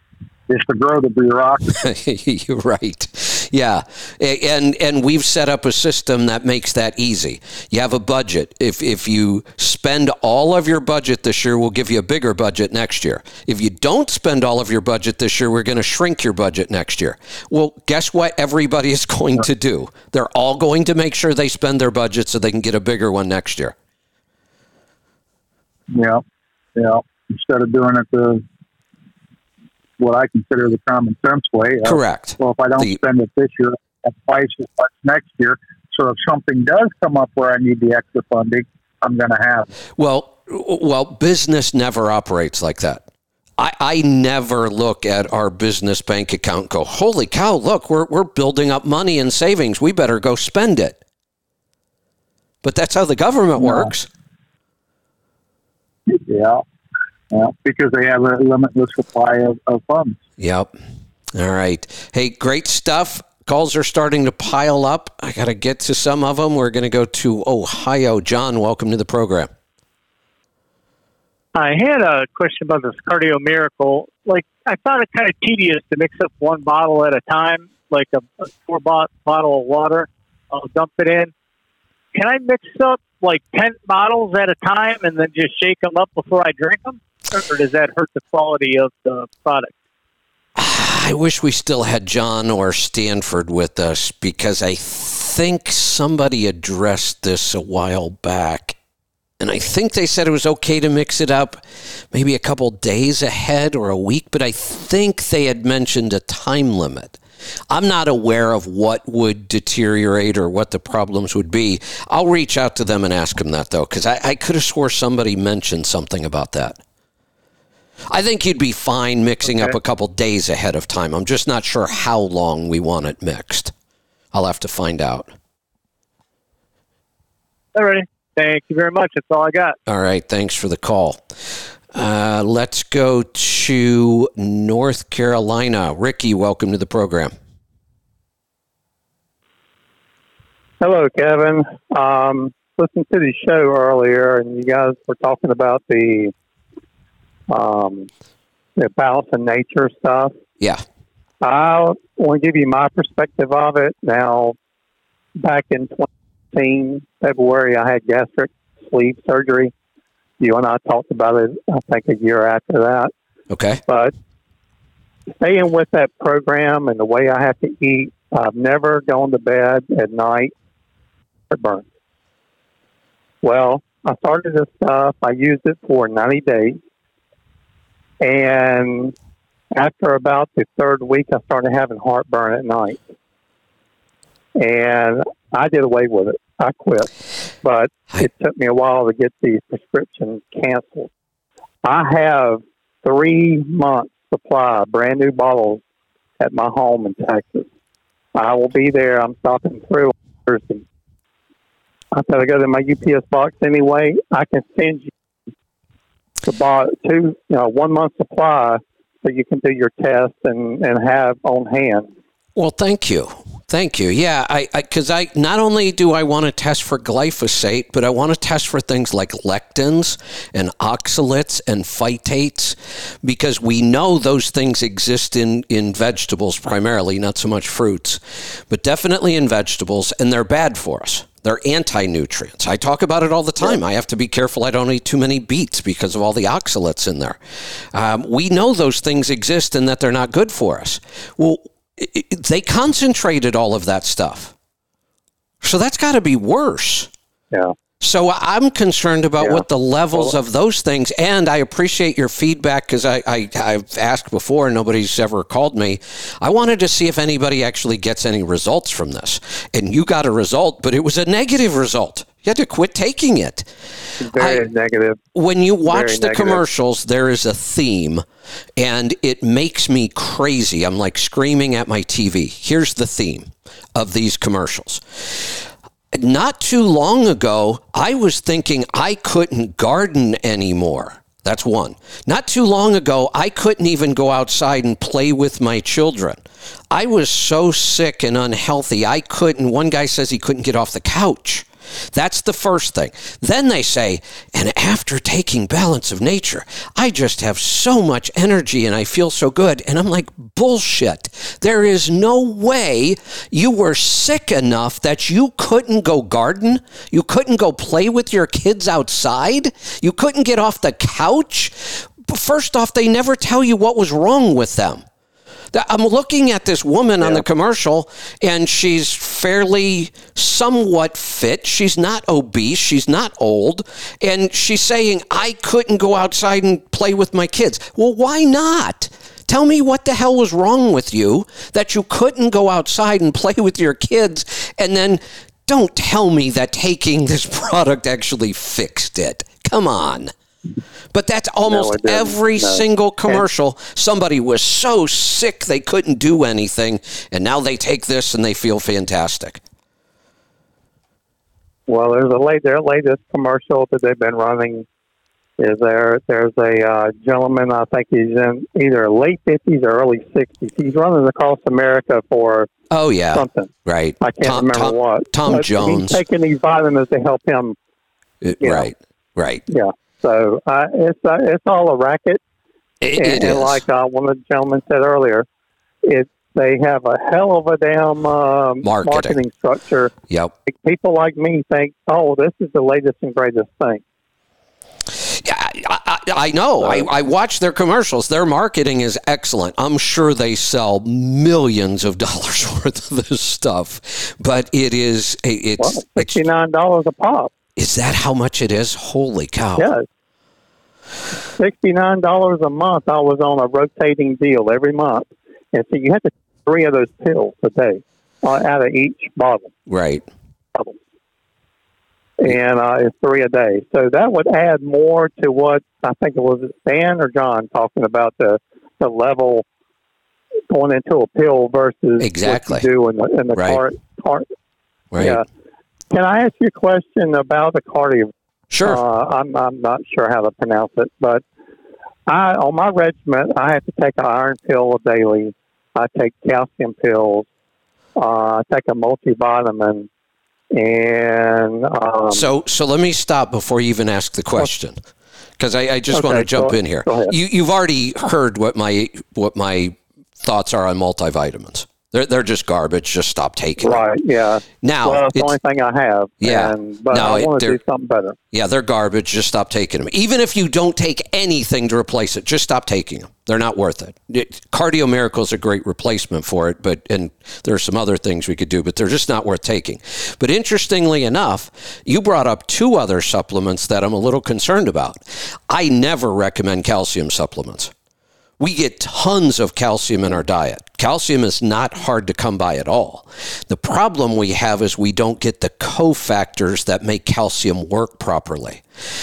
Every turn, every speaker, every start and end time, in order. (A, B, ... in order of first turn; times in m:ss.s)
0:00.5-0:01.8 A
0:01.7-0:23.7 B
0:25.9-0:26.2 A
0:26.8-0:28.4 A
0:30.0-0:39.7 A
0:31.8-0:33.0 B
0:40.0-0:43.0 B
0:43.6-0:51.0 B
0:52.6-0:54.1 B
0:53.6-0:53.9 A
0:56.1-0:56.6 A
0:57.3-1:00.2 A
1:00.4-1:00.7 B
1:01.3-1:09.5 B
1:11.6-1:21.3 C
1:22.1-1:29.7 C
1:30.6-1:38.8 B
1:39.4-1:47.2 B
1:47.7-1:56.8 B
1:58.1-2:03.7 B
2:04.3-2:05.3 B
2:07.7-2:09.8 C
2:09.9-2:17.3 B
2:20.8-2:26.3 D
2:27.5-2:28.1 D
2:28.8-2:30.3 D
2:31.4-2:34.6 D
2:35.4-2:39.7 D
2:40.4-2:43.1 D
2:43.5-2:43.8 B
2:43.9-2:44.1 D
2:45.4-2:50.5 D
2:51.5-2:51.9 D
2:53.4-2:56.8 D
2:58.2-2:59.1 D
2:59.7-3:03.1 D
3:04.6-3:07.1 D
3:07.6-3:11.1 D
3:11.8-3:15.8 D
3:16.4-3:17.7 D
3:18.3-3:20.8 D
3:22.1-3:25.1 D
3:26.4-3:32.1 D
3:32.6-3:57.4 B
3:57.9-4:04.5 B
4:05.6-4:07.1 B
4:08.0-4:23.7 B
4:09.4-4:10.3 D
4:24.2-4:25.2 D
4:24.3-4:24.7 B
4:25.3-4:28.2 B
4:25.9-4:26.6 D
4:28.8-5:15.0 B
5:15.7-5:40.3 B
5:41.1-5:49.6 B
5:41.7-5:43.4 D
5:51.9-5:54.9 D
5:55.6-6:02.7 D
6:02.9-6:06.2 B
6:03.3-6:07.8 D
6:08.4-6:09.6 B
6:08.6-6:08.9 D
6:09.7-6:12.4 D
6:13.0-6:13.8 B
6:13.2-6:15.4 D
6:16.0-6:20.1 D
6:18.8-6:19.4 B
6:20.3-6:20.5 B
6:20.7-6:24.0 D
6:25.1-6:36.4 B
6:26.8-6:27.1 D
6:35.8-6:37.5 D
6:37.8-6:39.9 B
6:39.8-6:40.0 D
6:41.6-6:49.7 D
6:49.9-6:50.2 B
6:52.4-6:59.6 D
7:00.7-7:04.5 D
7:02.2-7:02.9 B
7:03.5-7:03.8 B
7:05.1-7:05.4 B
7:05.2-7:05.4 D
7:06.1-7:11.4 D
7:08.7-7:09.0 B
7:12.3-7:17.5 D
7:18.2-7:20.1 D
7:20.7-7:22.5 D
7:22.3-7:25.0 B
7:25.6-7:34.1 B
7:26.1-7:27.3 D
7:33.8-7:38.4 D
7:34.8-7:35.6 B
7:36.4-7:37.8 B
7:38.5-7:57.9 B
7:58.6-8:08.8 B